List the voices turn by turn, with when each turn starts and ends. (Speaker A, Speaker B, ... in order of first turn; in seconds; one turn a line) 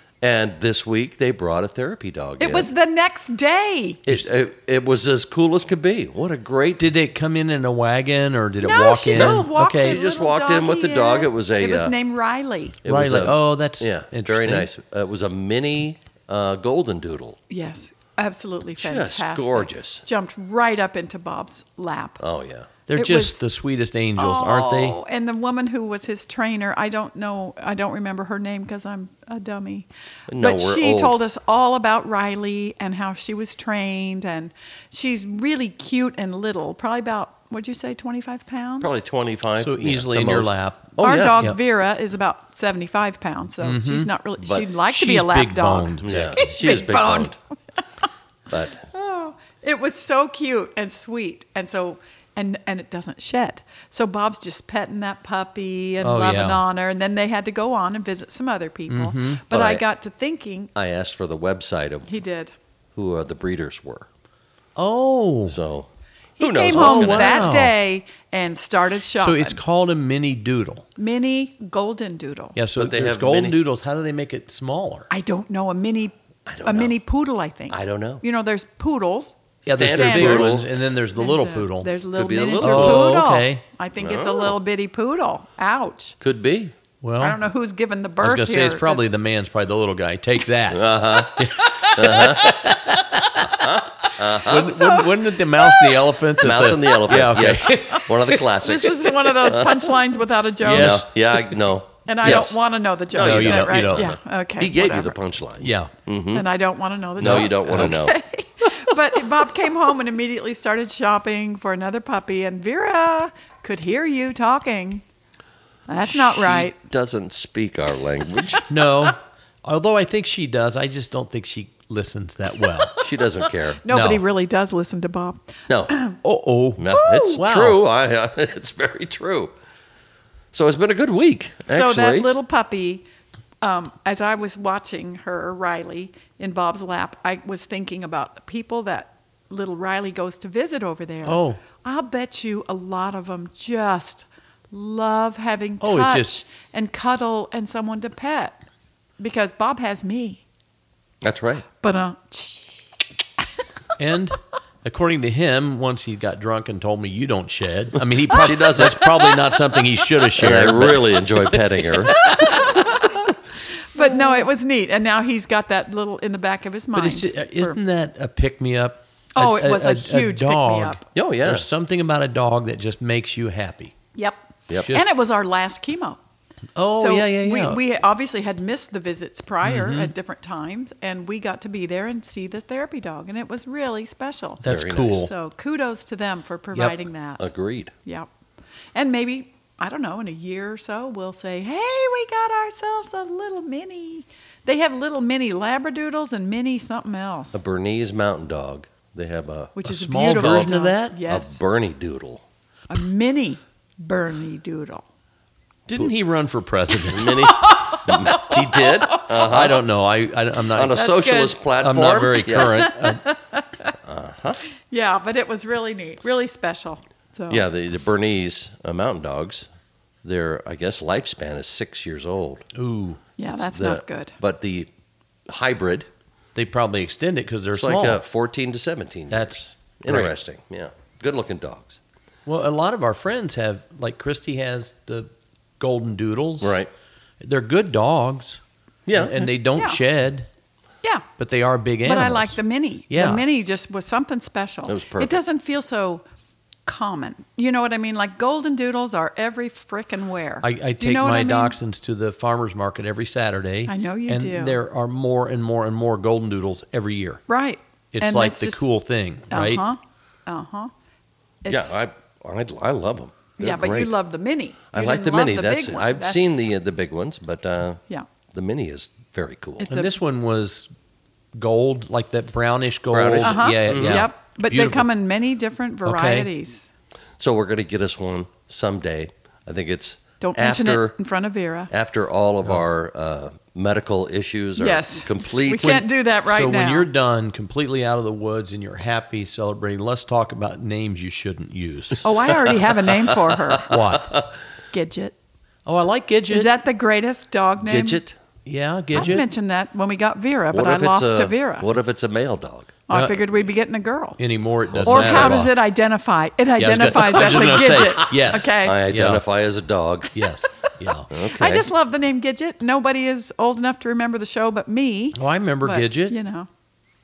Speaker A: 0.2-2.7
Speaker B: 2.4-4.0
Speaker A: 4.1-6.9
Speaker C: 6.8-10.0
Speaker B: 8.6-12.8
Speaker A: 9.1-11.9
Speaker A: 12.8-17.4
Speaker C: 12.9-14.7
Speaker B: 17.5-22.2
Speaker A: 18.8-20.1
Speaker A: 22.2-22.7
Speaker C: 22.9-25.0
Speaker B: 22.9-23.4
Speaker B: 24.2-29.9
Speaker A: 30.3-31.2
Speaker B: 30.4-38.9
Speaker A: 38.8-41.4
Speaker C: 39.6-41.6
Speaker B: 41.0-47.3
Speaker C: 43.6-44.1
Speaker A: 44.4-44.6
Speaker C: 44.9-46.4
Speaker A: 46.0-47.4
Speaker A: 48.5-48.9
Speaker B: 48.9-60.7
Speaker C: 56.0-56.6
Speaker C: 58.9-59.4
Speaker A: 59.5-59.8
Speaker A: 60.7-62.1
Speaker B: 62.1-62.5
Speaker A: 62.9-64.1
Speaker C: 64.8-65.6
Speaker A: 65.5-65.9
Speaker B: 66.4-69.6
Speaker A: 66.4-67.6
Speaker C: 66.7-67.7
Speaker C: 69.2-70.9
Speaker B: 71.0-72.6
Speaker C: 72.6-75.1
Speaker A: 72.8-73.6
Speaker B: 75.1-80.6
Speaker A: 76.5-76.9
Speaker A: 77.7-78.2
Speaker C: 79.7-81.9
Speaker A: 79.7-80.7
Speaker B: 81.1-86.2
Speaker A: 82.2-83.2
Speaker C: 82.6-83.6
Speaker A: 84.0-84.6
Speaker A: 86.2-86.7
Speaker C: 87.0-87.4
Speaker B: 87.2-89.0
Speaker C: 88.2-93.6
Speaker A: 90.7-92.7
Speaker B: 92.1-92.6
Speaker A: 93.5-94.8
Speaker B: 94.4-96.0
Speaker C: 94.4-98.5
Speaker A: 96.4-99.9
Speaker B: 98.6-101.0
Speaker C: 100.6-101.1
Speaker A: 100.6-102.6
Speaker B: 102.1-105.2
Speaker A: 103.1-106.4
Speaker C: 103.1-104.1
Speaker C: 105.6-105.9
Speaker B: 106.3-115.0
Speaker A: 107.2-108.2
Speaker C: 107.2-108.0
Speaker B: 115.9-116.8
Speaker A: 116.1-118.7
Speaker C: 118.7-123.0
Speaker B: 122.8-123.0
Speaker A: 123.0-123.8
Speaker B: 123.8-126.2
Speaker C: 123.9-124.2
Speaker C: 126.2-127.8
Speaker A: 126.8-129.5
Speaker B: 126.9-127.4
Speaker A: 130.5-132.3
Speaker B: 131.7-133.1
Speaker B: 133.6-148.6
Speaker C: 141.2-141.6
Speaker C: 145.8-146.3
Speaker B: 149.2-150.4
Speaker A: 151.2-151.7
Speaker B: 151.8-152.9
Speaker C: 154.0-162.1
Speaker A: 158.3-159.1
Speaker A: 160.4-162.2
Speaker B: 162.1-163.3
Speaker B: 163.9-167.8
Speaker C: 166.9-173.9
Speaker B: 169.4-171.0
Speaker A: 171.1-171.6
Speaker B: 174.1-176.2
Speaker C: 176.8-177.8
Speaker B: 176.9-187.4
Speaker C: 179.6-180.1
Speaker C: 184.6-185.3
Speaker A: 184.7-185.3
Speaker A: 187.4-187.9
Speaker B: 188.9-197.6
Speaker A: 197.5-200.7
Speaker B: 199.8-201.6
Speaker C: 199.8-201.2
Speaker A: 201.3-202.4
Speaker B: 202.9-205.1
Speaker C: 205.9-207.5
Speaker A: 207.1-209.8
Speaker B: 207.2-209.2
Speaker C: 208.5-210.9
Speaker A: 210.7-212.9
Speaker B: 210.9-211.6
Speaker C: 211.8-213.2
Speaker B: 212.5-213.9
Speaker A: 214.0-214.6
Speaker B: 214.9-217.6
Speaker A: 217.5-219.7
Speaker A: 220.2-222.7
Speaker C: 222.7-223.2
Speaker B: 223.4-224.3
Speaker A: 223.5-224.9
Speaker A: 225.5-226.1
Speaker C: 226.6-228.2
Speaker A: 227.7-232.0
Speaker C: 229.3-230.3
Speaker C: 232.4-235.3
Speaker C: 235.8-236.8
Speaker A: 236.6-236.9
Speaker C: 237.4-238.6
Speaker A: 239.1-239.5
Speaker C: 239.1-240.5
Speaker C: 241.4-242.6
Speaker B: 242.1-246.2
Speaker C: 243.1-243.4
Speaker A: 244.9-245.4
Speaker B: 246.8-251.8
Speaker C: 250.6-257.4
Speaker B: 253.9-254.8
Speaker B: 257.5-258.8
Speaker C: 258.1-259.9
Speaker B: 259.5-260.9
Speaker B: 261.6-262.0
Speaker A: 261.7-264.1
Speaker B: 263.6-266.6
Speaker A: 264.9-269.9
Speaker B: 269.8-270.1
Speaker C: 269.9-270.9
Speaker C: 271.6-275.1
Speaker A: 273.1-274.3
Speaker B: 273.4-276.9
Speaker C: 276.1-276.5
Speaker A: 277.4-281.1
Speaker B: 280.4-281.9
Speaker A: 281.9-286.0
Speaker B: 284.8-287.1
Speaker C: 285.8-292.2
Speaker B: 292.2-293.9
Speaker A: 293.3-294.5
Speaker C: 293.8-294.4
Speaker B: 294.9-295.4
Speaker C: 295.9-296.7
Speaker B: 296.5-298.2
Speaker A: 297.8-298.4
Speaker C: 298.6-299.4
Speaker B: 299.1-301.9
Speaker A: 300.7-303.0
Speaker B: 303.1-304.4
Speaker C: 303.1-303.4
Speaker C: 304.4-305.7
Speaker A: 304.9-305.7
Speaker B: 305.1-309.0
Speaker C: 306.8-309.4
Speaker A: 307.4-310.3
Speaker C: 310.3-311.3
Speaker A: 311.3-311.9
Speaker B: 311.4-316.7
Speaker C: 315.4-316.4